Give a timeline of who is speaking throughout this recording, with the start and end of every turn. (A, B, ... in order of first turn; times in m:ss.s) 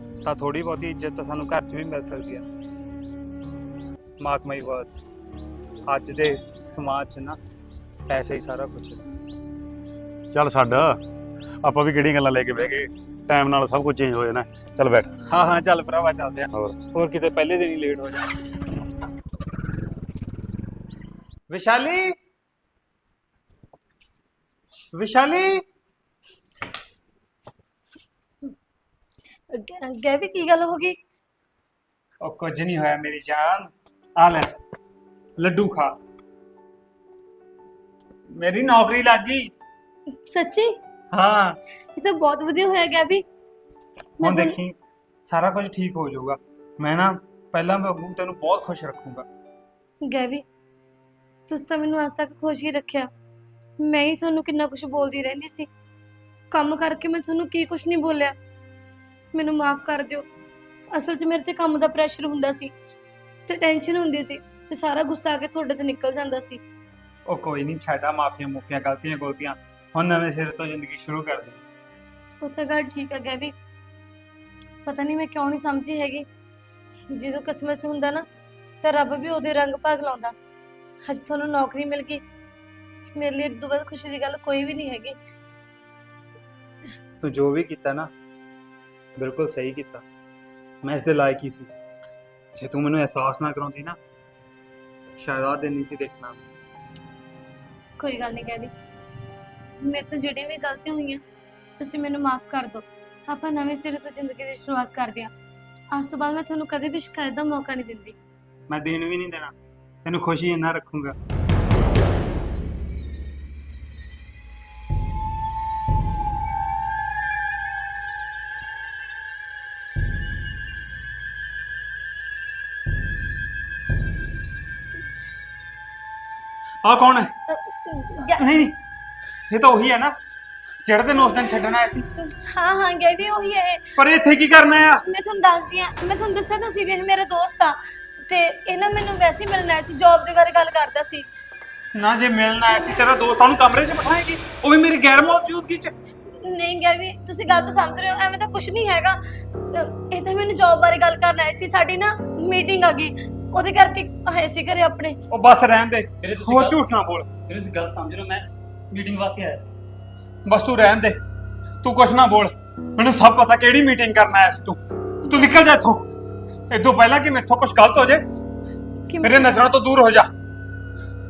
0:00.2-0:02.4 A
0:04.2-0:05.0 A
0:05.9-0:07.4 A
0:08.1-0:09.0 A
0:10.3-0:11.0 B
0:11.6-0:15.2 B
0:15.3-0:18.3 A
0:21.5-0:22.1 A
0:24.9-0:25.6 A
0:29.5-0:31.0 C
0:32.2-0:34.5 A
0:35.4-0:36.0 A
0:38.3-0:39.5 A
0:40.2-0:40.8 C
0:41.1-0:41.6 A
0:42.0-0:43.2 C
0:44.2-0:44.6 C
0:44.2-0:49.3 A
0:50.1-0:50.4 C
0:51.5-0:53.1 C
0:53.8-0:55.7 C
0:56.5-0:58.4 C
0:59.3-1:00.3 C
1:00.9-1:02.7 C
1:03.5-1:06.6 C
1:07.3-1:11.6 A
1:12.4-1:13.5 C
1:14.9-1:16.3 C
1:17.1-1:18.2 C
1:18.8-1:20.3 C
1:21.1-1:22.2 C
1:23.2-1:25.2 C
1:27.2-1:28.1 A
1:29.2-1:30.0 A
1:30.8-1:31.7 A
1:32.5-1:34.0 A
1:35.2-1:36.4 A
1:38.0-1:38.7 C
1:39.8-1:41.2 C
1:41.8-1:45.3 C
1:45.9-1:48.2 C
1:48.7-1:51.2 A
2:06.8-2:07.3 A
2:07.5-2:08.5 C
2:08.3-2:08.8 A
2:09.5-2:10.2 A
2:10.8-2:12.1 A
2:12.2-2:13.9 C
2:14.0-2:15.0 A
2:15.0-2:21.3 C
2:22.0-2:25.9 A
2:26.3-2:29.2 C
2:29.7-2:35.2 C
2:35.3-2:37.5 A
2:36.2-2:36.9 D
2:37.5-2:39.7 D
2:40.5-2:41.2 A
2:41.8-2:46.0 A
2:46.7-2:48.2 A
2:49.1-2:49.6 C
2:49.2-2:50.3 A